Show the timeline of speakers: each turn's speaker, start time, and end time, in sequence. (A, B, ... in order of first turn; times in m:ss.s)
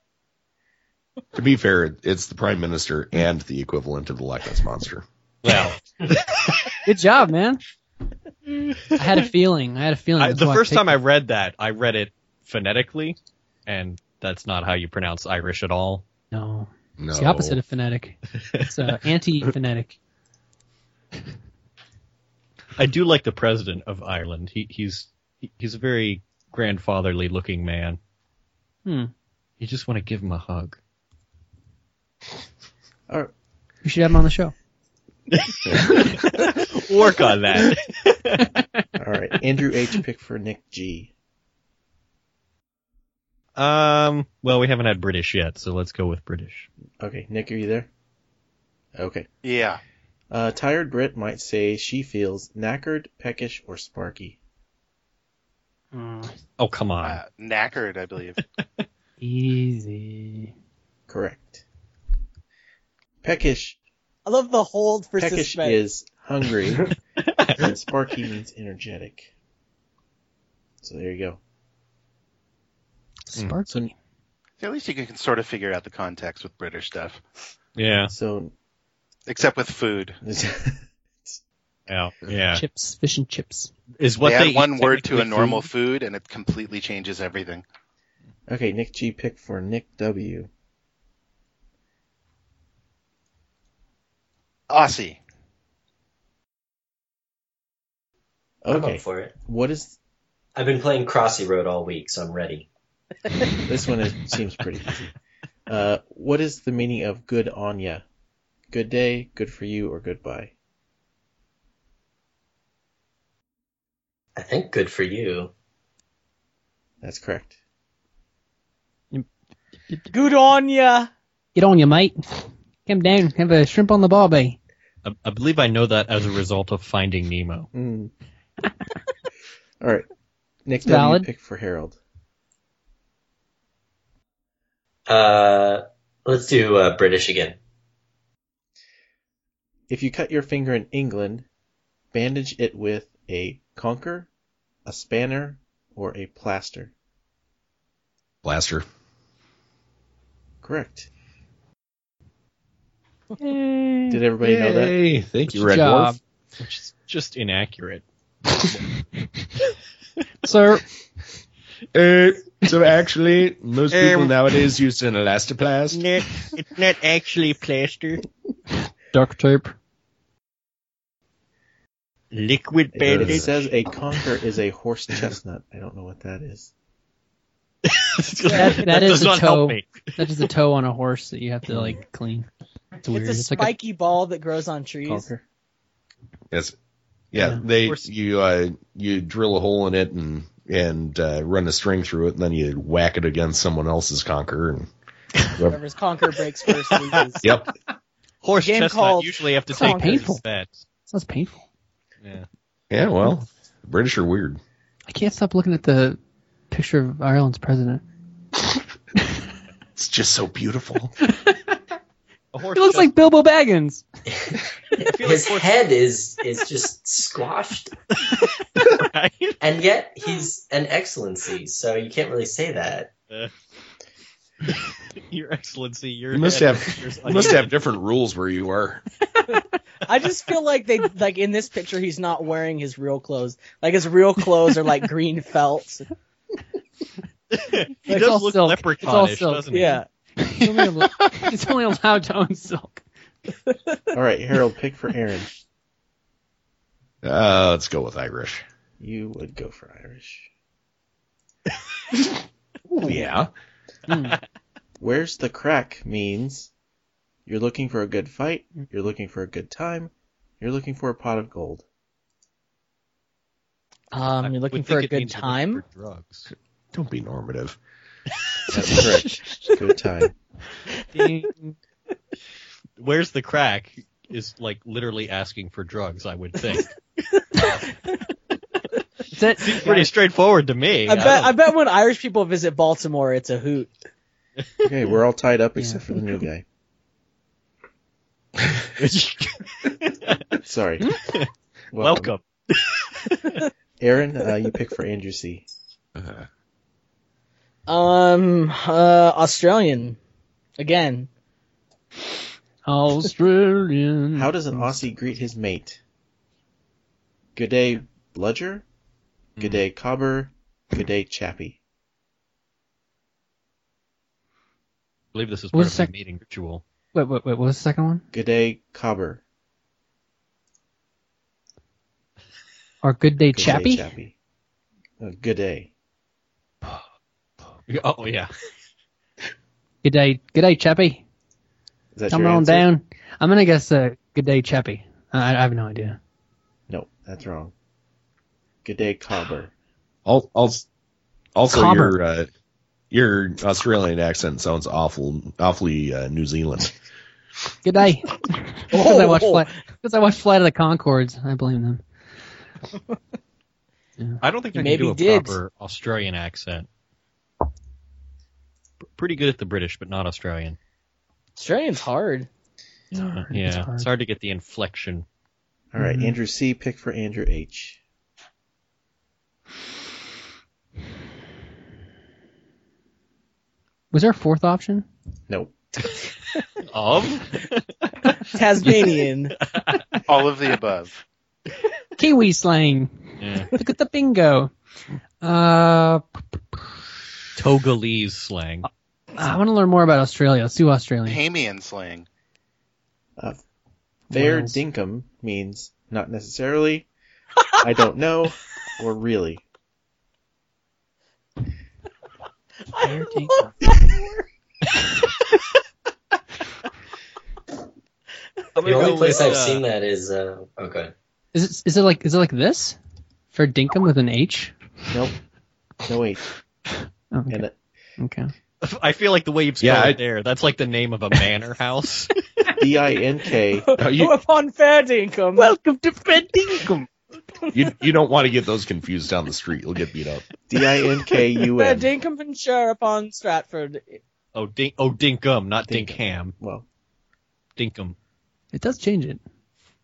0:01.4-0:05.1 A
0:05.4-0:06.7 B
0:06.8-0:07.6 C
0:09.0-0:11.0 C
0:10.2-0:16.0 B
0:16.3-0:20.0 C
0:17.0-0:17.6 A
0:18.4-0:18.7 B
0:22.8-0:28.0 B
0:28.9-0:29.1 C
0:29.6-0:30.8 B
0:33.8-0:34.5 C
0:35.3-0:38.5 B
0:39.0-0:41.1 D
0:43.6-0:46.7 B
0:47.0-0:47.9 D
0:49.0-0:49.3 D
0:49.4-0:49.8 E
0:50.3-0:54.4 D
0:55.9-0:56.3 C
0:56.6-0:57.2 B
0:57.0-0:58.4 E
0:59.2-1:00.5 C
1:01.1-1:01.6 D
1:03.2-1:03.8 D
1:04.3-1:05.8 F
1:05.2-1:07.0 D
1:07.3-1:07.7 B
1:07.5-1:09.3 D
1:10.8-1:11.4 D
1:13.3-1:13.9 C
1:14.6-1:17.2 E
1:17.8-1:18.1 B
1:18.1-1:18.5 D
1:19.3-1:20.2 E
1:20.2-1:21.4 D
1:21.9-1:22.6 B
1:22.5-1:23.7 C
1:24.0-1:25.7 B
1:24.2-1:27.6 E
1:28.5-1:30.5 D
1:34.7-1:35.2 E
1:38.6-1:40.0 D
1:38.7-1:39.4 G
1:40.6-1:42.7 G
1:43.7-1:45.1 D
1:45.7-1:48.0 D
1:48.7-1:50.5 D
1:54.4-1:55.5 G
1:57.0-1:57.6 D
2:00.1-2:01.1 F
2:01.6-2:04.6 C
2:05.0-2:07.7 B
2:07.7-2:08.1 D
2:09.8-2:10.1 D
2:10.6-2:12.0 D
2:10.8-2:11.3 C
2:15.1-2:17.6 G
2:19.9-2:21.5 D
2:22.1-2:24.3 D
2:24.8-2:26.9 D
2:28.4-2:28.8 A
2:30.6-2:31.1 D
2:33.4-2:34.2 C
2:34.1-2:35.0 D
2:34.4-2:36.2 A
2:35.5-2:36.2 C
2:36.6-2:38.0 B
2:40.4-2:40.8 C
2:41.9-2:46.1 A
2:43.9-2:44.4 B
2:45.9-2:48.2 B
2:49.1-2:49.7 C
2:52.3-2:53.6 B
2:52.9-2:56.7 D
2:53.2-2:53.5 A
2:57.8-3:00.4 B
2:58.4-2:58.9 F
2:58.5-3:02.5 C
3:01.7-3:02.0 B
3:03.0-3:03.7 C
3:03.1-3:05.3 F
3:05.0-3:05.4 D
3:07.3-3:14.9 A
3:07.4-3:07.6 C
3:07.8-3:08.1 B
3:15.6-3:17.4 F
3:17.4-3:17.7 A
3:18.4-3:20.8 B
3:18.6-3:20.0 F
3:19.8-3:20.4 C
3:21.1-3:21.6 C
3:22.9-3:24.6 A
3:25.1-3:26.2 C
3:26.7-3:28.0 C
3:30.0-3:31.2 A
3:31.3-3:31.8 C
3:32.5-3:33.1 B
3:32.8-3:34.0 C
3:34.3-3:37.9 G
3:35.0-3:35.8 B
3:38.2-3:39.6 B
3:39.6-3:43.1 G
3:45.3-3:47.7 B
3:46.3-3:49.0 A
3:50.1-3:56.1 F
3:57.5-4:00.0 B
3:58.1-3:59.7 C
3:59.7-4:00.0 F
4:00.4-4:03.0 C
4:04.1-4:05.5 D
4:07.2-4:08.6 A
4:09.0-4:10.5 D
4:12.9-4:13.5 A
4:14.1-4:14.4 C
4:15.0-4:16.7 D
4:17.5-4:21.8 D
4:24.1-4:25.8 F
4:24.4-4:26.5 B
4:26.9-4:27.8 A
4:28.7-4:30.3 D
4:31.2-4:31.8 C
4:33.0-4:36.9 B
4:39.3-4:40.1 C
4:39.6-4:41.6 B
4:41.1-4:43.9 F
4:44.8-4:46.6 D
4:45.8-4:46.0 C
4:49.0-4:50.4 B
4:50.6-4:51.1 D
4:51.9-4:52.3 D
4:52.0-4:53.6 B
4:54.0-4:55.7 D
4:56.2-4:56.4 A
4:57.9-5:00.2 F
5:00.8-5:01.3 F
5:02.9-5:05.1 C
5:04.4-5:06.0 D
5:07.6-5:08.8 D
5:09.6-5:11.8 D
5:15.3-5:16.8 B
5:15.7-5:16.1 C
5:17.1-5:18.2 C
5:18.3-5:19.4 D
5:23.0-5:24.1 C
5:23.5-5:24.3 D
5:25.2-5:25.9 D
5:27.9-5:28.5 B
5:30.0-5:31.2 C
5:32.1-5:32.9 D
5:32.3-5:36.2 C
5:36.9-5:37.7 D
5:38.8-5:39.7 D
5:40.3-5:40.9 A
5:41.6-5:42.5 A
5:41.7-5:42.2 C
5:43.1-5:47.0 A
5:47.8-5:52.0 C
5:48.9-5:49.7 F
5:54.4-5:56.9 B
5:54.7-5:55.6 F
5:59.2-6:00.8 B
6:01.6-6:02.5 F
6:03.1-6:04.1 C
6:03.2-6:05.2 B
6:05.9-6:08.0 D
6:06.0-6:06.4 C
6:14.1-6:15.1 C
6:15.5-6:15.8 D
6:16.9-6:20.0 B
6:18.5-6:19.5 F
6:20.3-6:21.1 E
6:22.2-6:24.7 C
6:23.4-6:23.7 B
6:25.4-6:26.8 C
6:27.6-6:28.9 B
6:29.4-6:31.4 C
6:31.3-6:32.3 E
6:34.3-6:34.8 C
6:34.3-6:37.1 D
6:37.8-6:39.6 D
6:42.9-6:44.4 F
6:43.0-6:43.7 C
6:48.8-6:49.8 B
6:48.8-6:51.1 G
6:51.5-6:53.0 C
6:53.5-6:54.7 C
6:56.0-6:56.4 D
6:57.3-6:57.6 C
6:57.5-6:57.8 D
6:58.2-6:58.5 C
6:58.8-7:02.3 B
6:59.8-7:00.2 A
7:02.8-7:03.9 D
7:03.7-7:05.7 F
7:04.0-7:04.4 A
7:05.6-7:07.1 C
7:07.7-7:10.4 A
7:10.7-7:12.1 D
7:11.4-7:14.2 F
7:14.6-7:16.5 B
7:15.9-7:16.8 D
7:17.8-7:18.2 B
7:18.7-7:19.4 C